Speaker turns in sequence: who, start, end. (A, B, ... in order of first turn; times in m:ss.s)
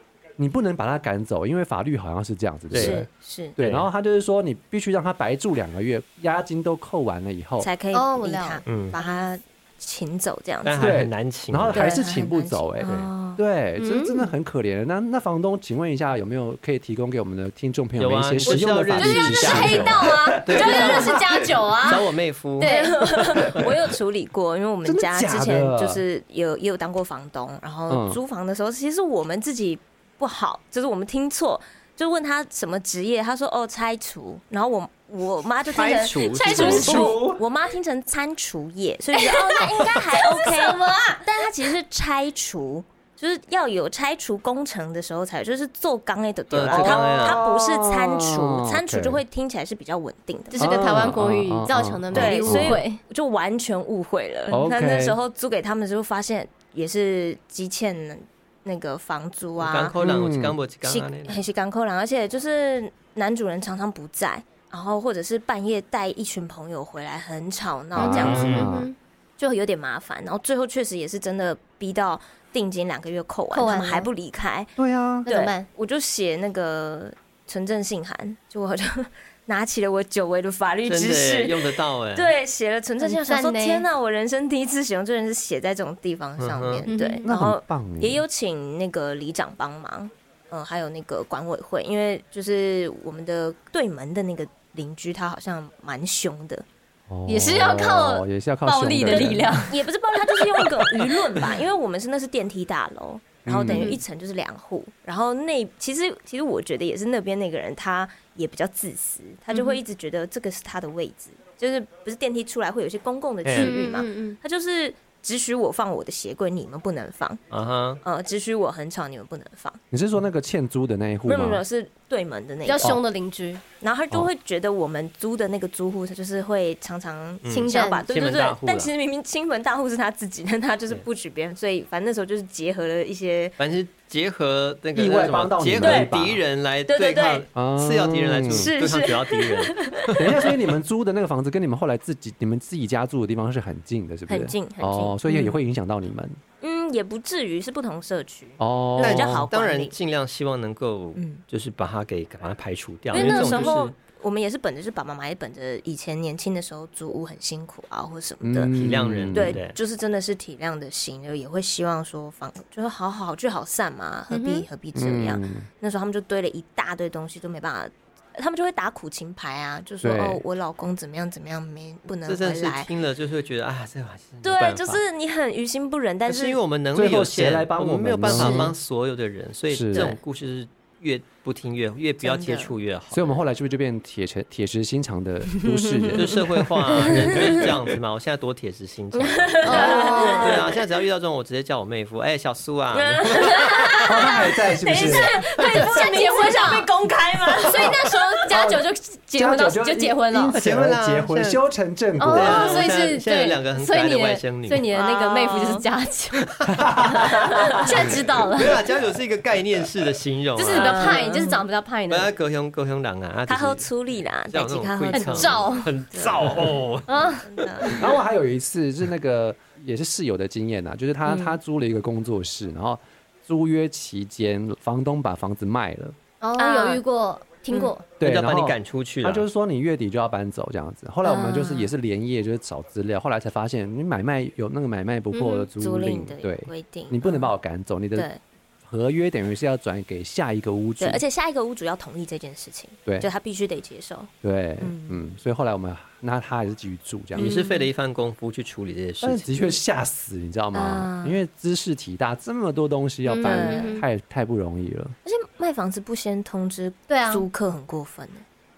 0:00.4-0:07.7 A
0:02.7-0:03.0 B
0:02.7-0:03.6 C
0:03.6-0:03.9 B
0:07.6-0:10.9 C
0:07.9-0:08.6 D
0:08.7-0:09.0 B
0:10.6-0:12.0 B
0:10.8-0:21.6 A
0:11.7-0:13.4 C
0:12.8-0:13.1 B
0:13.8-0:14.2 D
0:18.0-0:22.8 B
0:18.5-0:22.1 D
0:20.6-0:20.9 C
0:22.6-0:23.0 D
0:22.6-0:51.0 C
0:23.4-0:23.7 B
0:24.8-0:26.0 A
0:27.9-0:28.2 A
0:35.7-0:37.1 B
0:36.2-0:37.2 D
0:36.5-0:37.4 A
0:39.1-0:41.5 D
0:46.5-0:47.4 B
0:46.7-0:49.2 A
0:50.5-0:53.0 D
0:50.6-0:52.8 A
0:52.1-1:00.0 C
0:54.5-0:55.2 A
0:59.6-1:01.4 B
1:00.0-1:00.6 A
1:00.8-1:08.7 C
1:07.9-1:08.9 A
1:08.0-1:09.0 D
1:08.1-1:08.7 B
1:09.4-1:14.7 C
1:13.5-1:14.1 D
1:14.8-1:15.3 A
1:15.3-1:15.7 D
1:15.3-1:36.7 C
1:20.9-1:22.3 B
1:23.0-1:23.8 D
1:26.4-1:26.9 B
1:26.9-1:27.3 D
1:27.2-1:28.2 A
1:37.1-1:39.6 A
1:37.3-1:39.8 D
1:39.1-1:57.4 C
1:43.4-1:44.0 A
1:43.7-1:44.0 D
1:49.5-1:49.8 D
1:53.4-1:53.8 B
1:53.5-1:54.4 D
1:57.5-1:58.0 B
1:58.0-1:59.8 C
1:59.9-2:01.6 A
2:01.3-2:03.0 C
2:02.6-2:03.6 D
2:03.8-2:13.5 C
2:07.4-2:08.9 B
2:07.5-2:08.0 D
2:13.6-2:20.3 B
2:15.0-2:16.4 A
2:15.8-2:16.1 C
2:16.9-2:17.5 C
2:17.6-2:18.7 A
2:18.5-2:20.2 C
2:20.2-2:26.4 A
2:24.3-2:25.6 C
2:26.6-2:29.9 C
2:28.6-2:29.5 A
2:29.0-2:33.9 B
2:31.2-2:31.4 C
2:33.1-2:38.7 C
2:33.1-2:33.7 D
2:38.4-2:39.6 A
2:38.7-2:39.8 B
2:39.3-2:52.9 C
2:44.3-2:44.7 D
2:45.0-2:45.7 A
2:50.0-2:50.4 A
2:52.3-2:55.0 B
2:54.4-2:56.6 C
2:56.3-3:03.4 B
2:56.9-2:58.8 A
2:58.2-2:58.7 C
2:59.7-3:00.2 A
3:02.2-3:02.8 C
3:03.1-3:07.7 A
3:06.2-3:13.8 B
3:07.0-3:07.6 C
3:09.1-3:10.8 C
3:09.6-3:10.5 D
3:09.7-3:10.5 A
3:12.9-3:18.2 C
3:13.9-3:14.2 D
3:14.0-3:15.3 A
3:14.9-3:16.9 D
3:17.6-3:20.6 D
3:18.5-3:22.8 A
3:20.5-3:21.6 B
3:22.2-3:26.5 D
3:22.3-3:24.9 B
3:24.9-3:25.8 C
3:26.7-3:27.5 A
3:27.2-3:28.0 C
3:27.7-3:28.8 D
3:27.9-3:31.3 B
3:30.6-3:32.3 D
3:30.8-3:31.6 C
3:32.1-3:33.9 B
3:33.5-3:38.1 C
3:34.5-3:37.1 B
3:35.1-3:35.9 D
3:37.1-3:37.9 D
3:37.9-3:46.2 A
3:41.3-3:41.6 C
3:46.4-3:48.0 D
3:46.6-3:47.0 C
3:48.2-3:58.3 A
3:48.2-3:49.5 B
3:51.2-3:51.9 C
3:55.3-3:55.7 D
3:55.8-3:57.5 C
3:58.1-3:58.4 C
3:58.9-4:01.2 A
4:01.0-4:05.2 C
4:04.4-4:07.6 A
4:07.4-4:07.7 C
4:07.4-4:09.5 B
4:09.2-4:15.2 A
4:10.7-4:11.4 C
4:13.3-4:14.1 D
4:13.4-4:14.0 C
4:15.2-4:18.4 C
4:17.1-4:17.4 D